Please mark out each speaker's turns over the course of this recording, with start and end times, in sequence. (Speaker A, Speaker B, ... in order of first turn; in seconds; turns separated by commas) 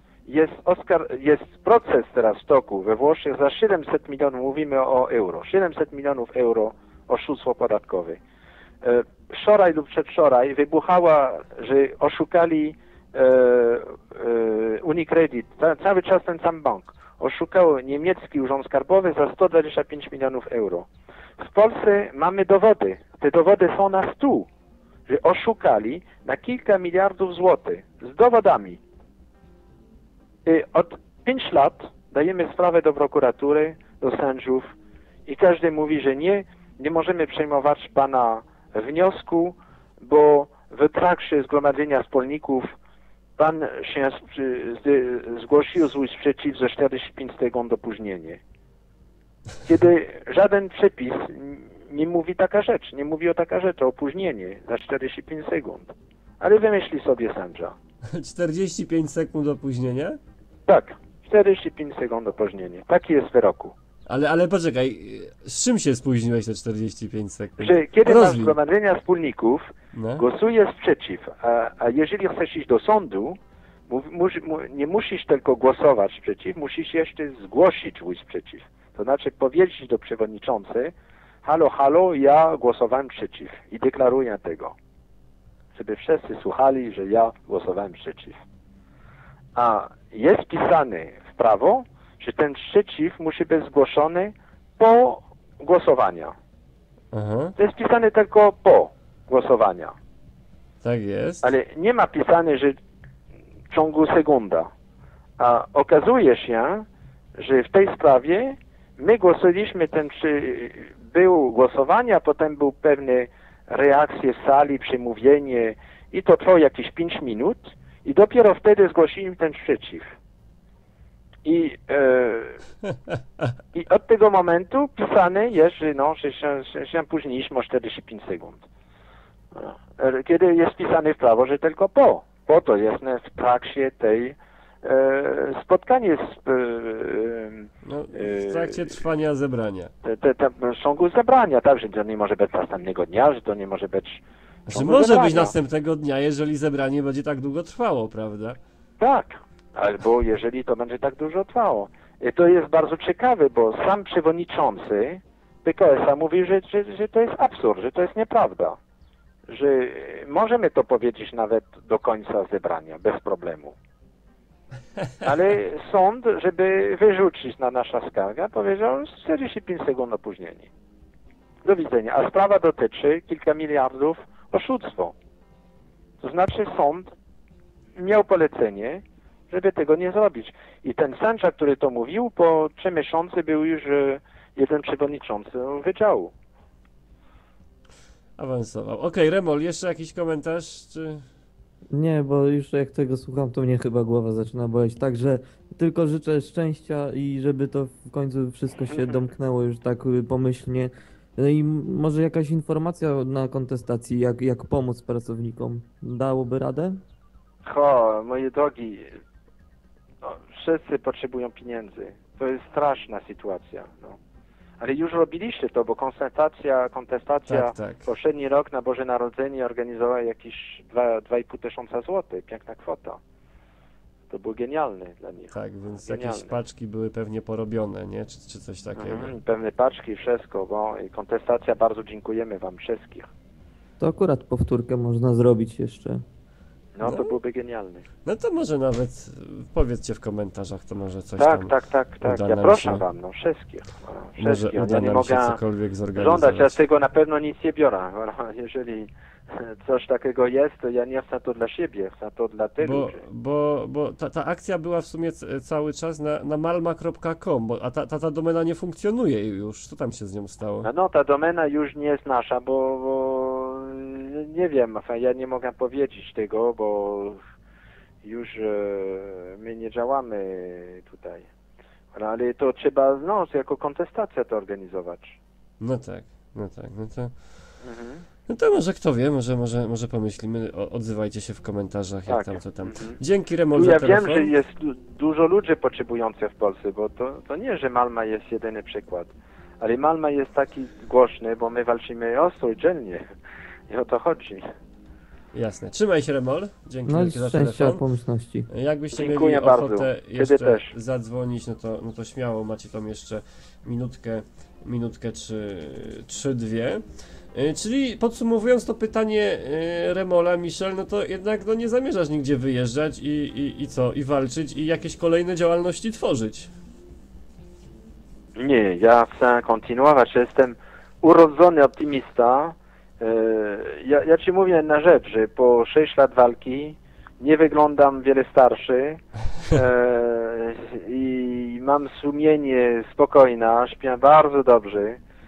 Speaker A: 0.2-8.2, Speaker A: 8.8-20.9, Speaker A: 21.4-24.5, Speaker A: 25.1-28.8, Speaker A: 30.4-34.7, Speaker A: 35.3-42.7, Speaker A: 43.4-48.4, Speaker A: 49.6-57.7, Speaker B: 58.1-60.2, Speaker A: 60.7-63.7, Speaker B: 64.1-68.6, Speaker A: 67.6-73.4, Speaker B: 69.9-70.2, Speaker A: 73.9-80.9, Speaker A: 81.4-84.7, Speaker A: 85.7-88.4, Speaker A: 89.5-96.3, Speaker B: 97.1-97.5, Speaker A: 97.6-99.9, Speaker B: 100.8-101.4, Speaker A: 101.4-102.8, Speaker A: 103.7-104.7, Speaker A: 105.4-106.8, Speaker A: 107.4-120.1, Speaker A: 121.4-122.6, Speaker A: 123.7-128.6, Speaker A: 129.5-139.0, Speaker B: 137.8-139.9, Speaker A: 140.0-145.5, Speaker B: 144.7-148.6, Speaker A: 149.0-158.8, Speaker A: 159.5-163.7, Speaker A: 165.2-170.7, Speaker A: 171.6-175.1, Speaker A: 176.2-177.1, Speaker A: 177.9-186.3, Speaker B: 188.4-191.2, Speaker C: 191.9-207.0, Speaker A: 207.6-209.2, Speaker A: 210.2-214.2, Speaker A: 214.8-223.2, Speaker B: 217.5-218.1, Speaker A: 224.3-226.6, Speaker B: 225.5-229.3, Speaker A: 229.0-233.3, Speaker C: 234.0-236.2, Speaker A: 236.9-238.1, Speaker B: 237.0-237.3, Speaker B: 238.2-243.0, Speaker A: 241.4-245.6, Speaker B: 244.4-246.8, Speaker A: 246.1-253.2, Speaker B: 252.8-260.9, Speaker A: 260.8-267.4, Speaker A: 268.2-271.5, Speaker A: 272.1-275.4, Speaker B: 275.8-277.4, Speaker A: 277.8-278.2, Speaker B: 278.5-284.5, Speaker A: 282.3-283.2, Speaker A: 283.7-293.2, Speaker A: 293.9-294.6, Speaker B: 295.5-298.0, Speaker C: 297.1-298.7, Speaker B: 298.7-316.7, Speaker A: 299.1-300.9, Speaker A: 318.6-335.2